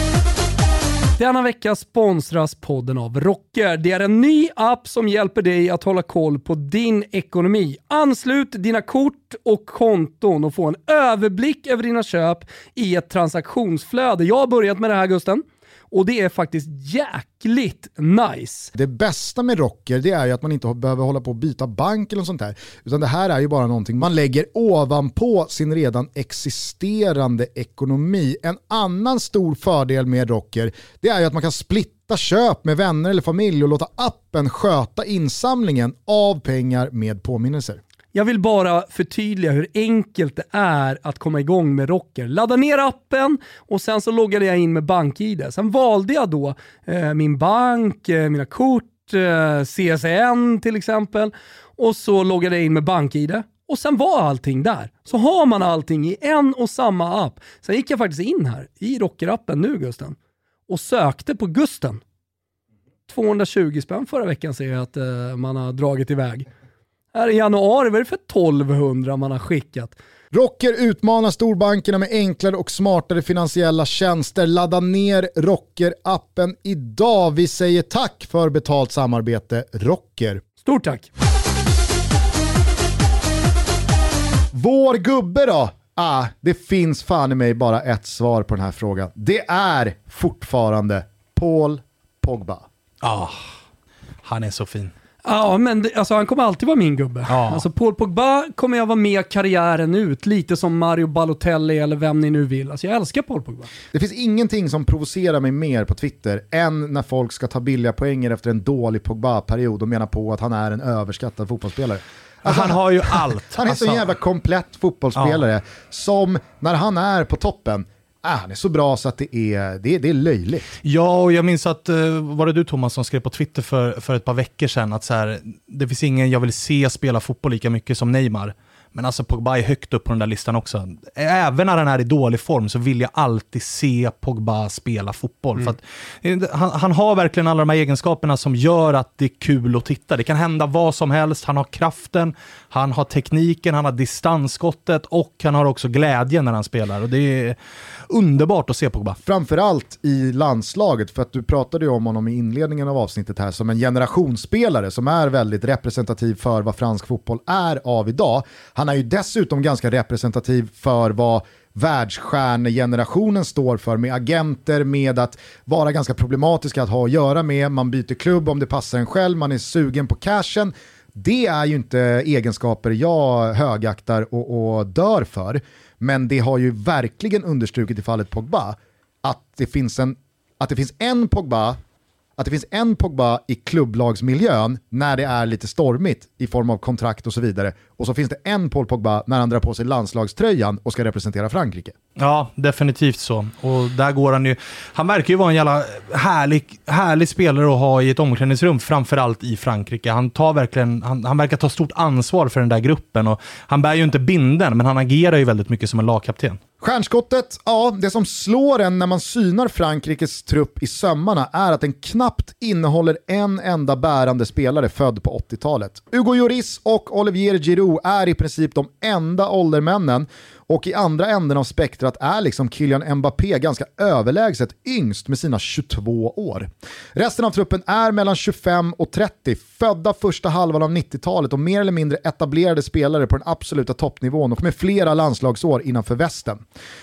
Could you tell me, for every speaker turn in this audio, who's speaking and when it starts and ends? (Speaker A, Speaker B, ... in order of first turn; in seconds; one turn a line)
Speaker A: 1.2-18.7
Speaker B: 18.7-37.8
Speaker A: 38.1-60.2
Speaker A: 60.7-62.0
Speaker A: 63.1-66.5
Speaker A: 67.1-70.0
Speaker B: 70.3-80.4
Speaker A: 80.6-81.1
Speaker B: 84.5-92.7
Speaker C: 93.0-93.5
Speaker C: 94.2-94.9
Speaker A: 95.2-103.7
Speaker C: 97.3-97.6
Speaker B: 103.9-120.8
Speaker C: 112.4-114.1
Speaker C: 115.1-115.4
Speaker C: 120.8-149.2
Speaker B: 149.2-181.8
Speaker B: 182.4-191.9
Speaker C: 192.2-206.6
Speaker B: 206.8-236.6